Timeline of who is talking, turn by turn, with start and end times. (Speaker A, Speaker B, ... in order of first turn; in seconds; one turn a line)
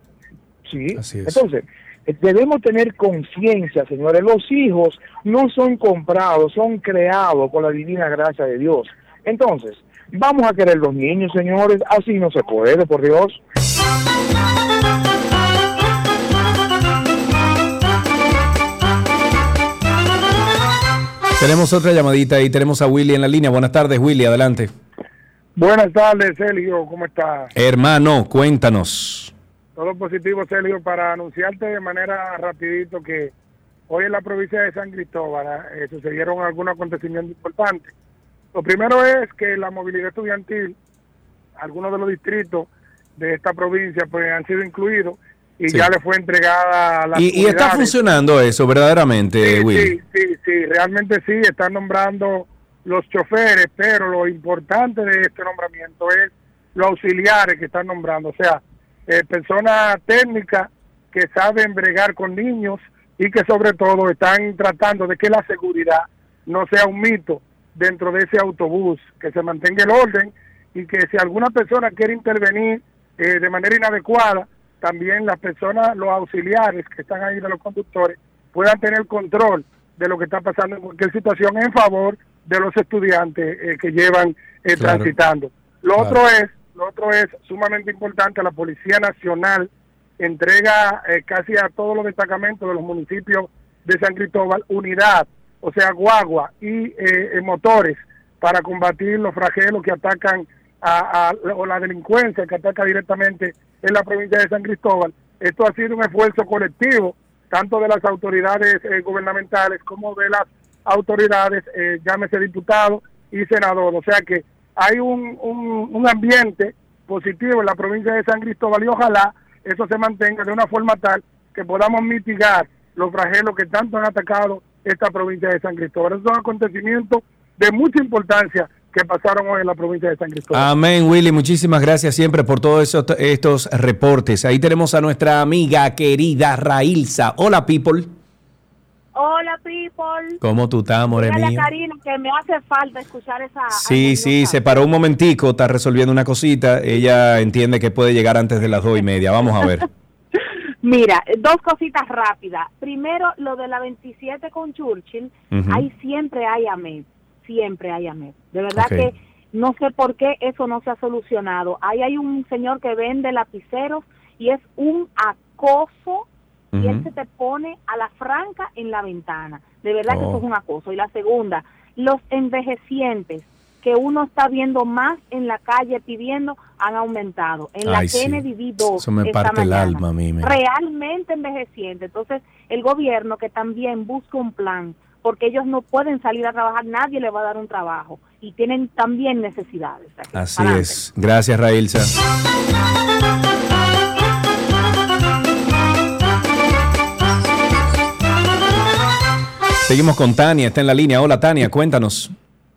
Speaker A: 0.6-13.4
Speaker B: 0.9-1.4
Speaker B: 21.4-24.7
Speaker C: 25.6-27.5
Speaker B: 27.5-29.3
Speaker C: 29.8-33.3
Speaker C: 33.9-37.9
Speaker C: 38.5-40.8
Speaker C: 41.6-47.9
Speaker B: 47.1-50.0
Speaker C: 49.4-130.7
Speaker B: 84.8-85.1
Speaker B: 130.5-138.1
Speaker D: 139.1-140.4
Speaker B: 140.4-141.7
Speaker D: 141.1-144.9
Speaker B: 143.7-149.8
Speaker D: 150.8-191.0
Speaker B: 155.5-155.9
Speaker B: 158.7-159.1
Speaker B: 166.7-167.1
Speaker B: 170.1-170.4
Speaker B: 177.8-178.4
Speaker B: 179.0-180.6
Speaker B: 190.3-192.1
Speaker B: 199.8-202.3